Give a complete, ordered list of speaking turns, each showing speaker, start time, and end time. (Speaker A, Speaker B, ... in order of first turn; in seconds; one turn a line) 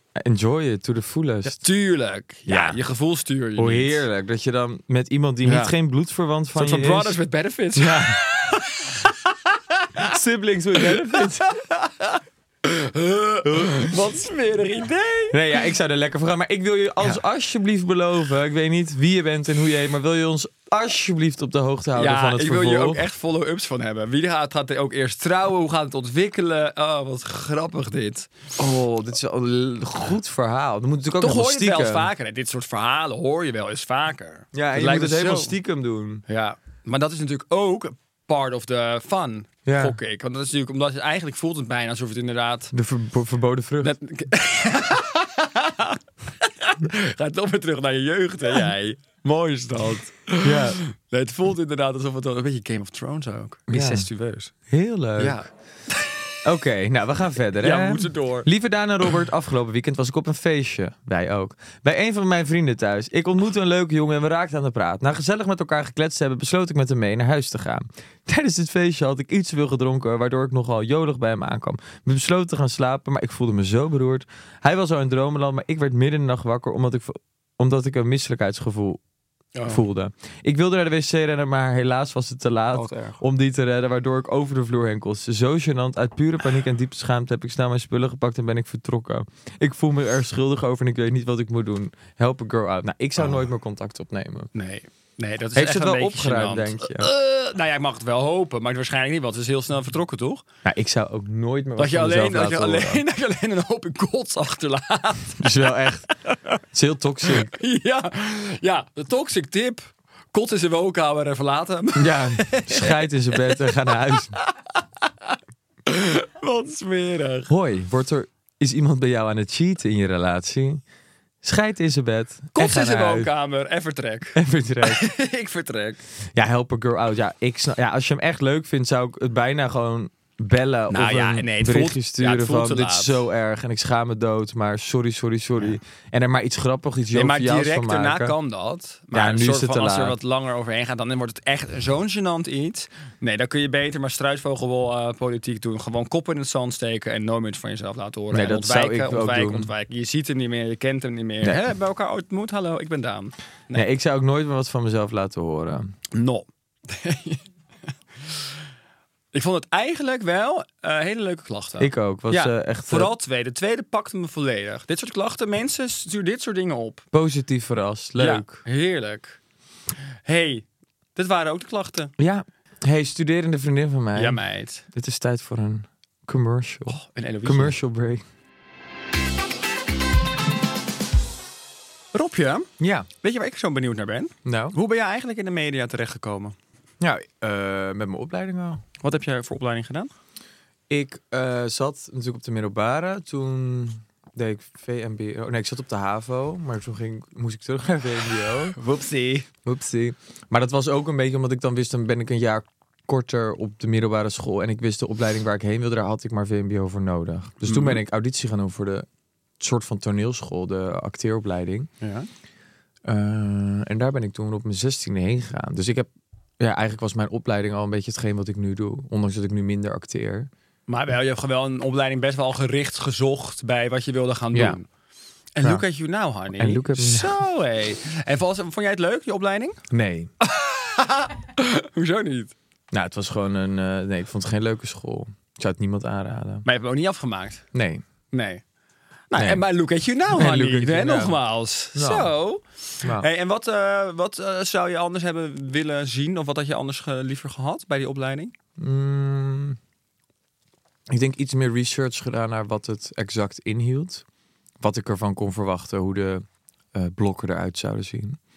Speaker A: 0.1-1.6
Speaker B: 1.4-4.0
Speaker A: 2.5-2.8
Speaker A: 3.6-7.2
Speaker B: 5.4-5.7
Speaker B: 6.5-10.1
Speaker A: 7.8-8.2
Speaker A: 10.0-11.5
Speaker B: 10.8-15.4
Speaker A: 13.5-13.9
Speaker A: 15.3-23.1
Speaker B: 21.9-28.3
Speaker A: 28.6-32.1
Speaker B: 31.2-35.5
Speaker A: 34.5-36.2
Speaker B: 36.3-42.7
Speaker A: 39.6-40.0
Speaker A: 42.7-43.9
Speaker B: 43.8-54.5
Speaker A: 50.4-50.8
Speaker A: 53.7-54.1
Speaker A: 54.7-55.4
Speaker B: 55.2-56.4
Speaker A: 56.4-79.0
Speaker B: 57.6-58.5
Speaker B: 79.5-79.8
Speaker A: 79.7-94.5
Speaker B: 82.7-83.2
Speaker B: 94.5-100.4
Speaker A: 95.5-97.1
Speaker A: 100.6-103.0
Speaker B: 101.8-105.8
Speaker A: 105.4-106.1
Speaker A: 106.7-107.6
Speaker B: 107.2-113.6
Speaker A: 112.0-114.4
Speaker B: 114.4-117.5
Speaker A: 117.5-120.8
Speaker A: 121.4-123.3
Speaker B: 122.5-126.0
Speaker A: 124.3-125.1
Speaker A: 126.4-138.3
Speaker B: 130.9-133.2
Speaker B: 137.1-153.8
Speaker A: 139.1-140.2
Speaker A: 148.3-149.7
Speaker A: 153.7-155.9
Speaker B: 156.1-157.4
Speaker B: 159.3-167.1
Speaker A: 161.8-163.1
Speaker A: 167.1-168.6
Speaker B: 168.2-169.4
Speaker B: 170.2-172.1
Speaker A: 172.2-178.2
Speaker B: 174.1-174.8
Speaker B: 176.9-177.8
Speaker B: 182.1-186.6
Speaker A: 182.8-183.1
Speaker A: 184.4-184.8
Speaker A: 187.0-188.8
Speaker B: 189.0-190.1
Speaker A: 190.9-198.8
Speaker B: 198.8-199.5
Speaker A: 199.6-209.1
Speaker B: 207.6-208.0
Speaker A: 209.6-211.9
Speaker B: 212.0-212.3
Speaker A: 213.1-216.1
Speaker A: 216.6-220.5
Speaker B: 220.9-224.8
Speaker A: 224.5-224.8
Speaker B: 225.6-229.8
Speaker A: 226.6-227.4
Speaker A: 229.9-230.3
Speaker B: 230.4-232.5
Speaker A: 232.9-236.6
Speaker B: 236.6-237.7
Speaker A: 237.7-238.0
Speaker B: 238.3-238.6
Speaker B: 239.3-248.5
Speaker A: 239.4-239.6
Speaker A: 240.3-241.4
Speaker A: 241.9-242.3
Speaker A: 248.8-249.8
Speaker A: 251.1-254.2
Speaker A: 254.8-258.4